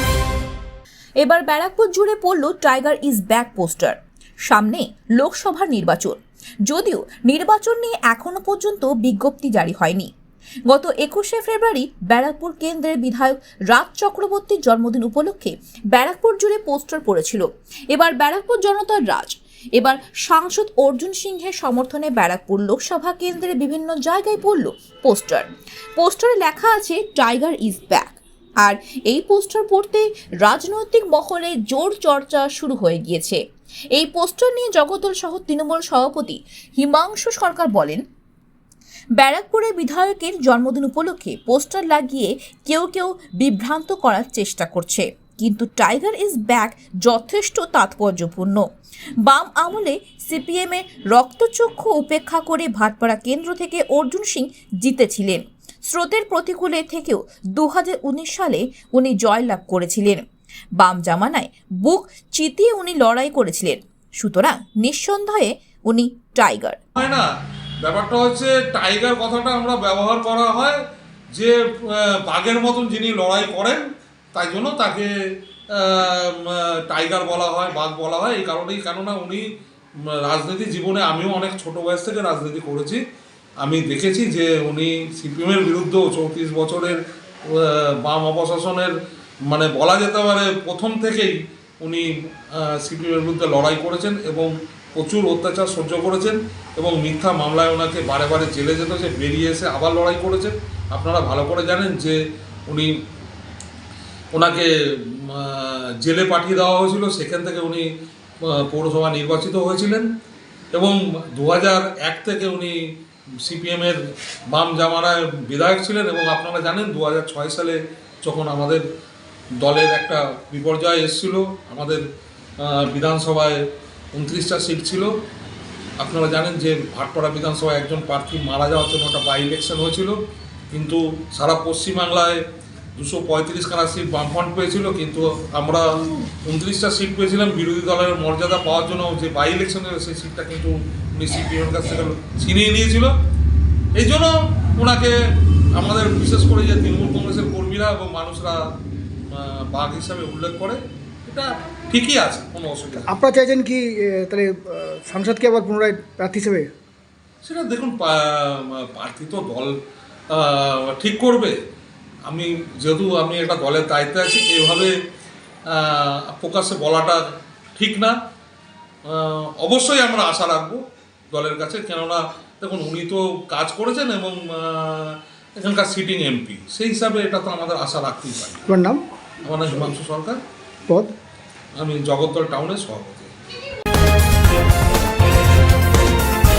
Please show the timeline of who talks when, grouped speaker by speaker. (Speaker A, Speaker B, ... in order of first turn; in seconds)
Speaker A: 1.2-4.0, 4.5-10.1, 10.7-33.4, 33.9-38.0, 39.2-48.6, 49.2-60.2, 60.8-66.8
Speaker B: 67.0-67.3, 67.8-70.8, 71.3-73.8, 74.3-75.1, 75.7-79.5, 80.0-83.0, 83.6-88.9, 89.5-102.2, 104.3-107.8, 108.4-110.1, 110.7-112.8, 113.4-114.0, 114.5-118.8, 119.6-122.0, 122.6-123.6, 124.1-125.1, 126.0-130.2, 130.7-132.4, 133.0-143.1, 143.9-145.2, 145.7-148.6, 149.3-153.1, 157.4-159.7, 160.3-161.5, 162.2-164.9, 165.7-167.2, 167.8-168.2, 169.0-170.8, 171.3-178.7, 179.4-180.4, 181.8-183.3
Speaker C: 153.0-156.7, 178.7-179.0, 179.6-179.9, 180.9-181.1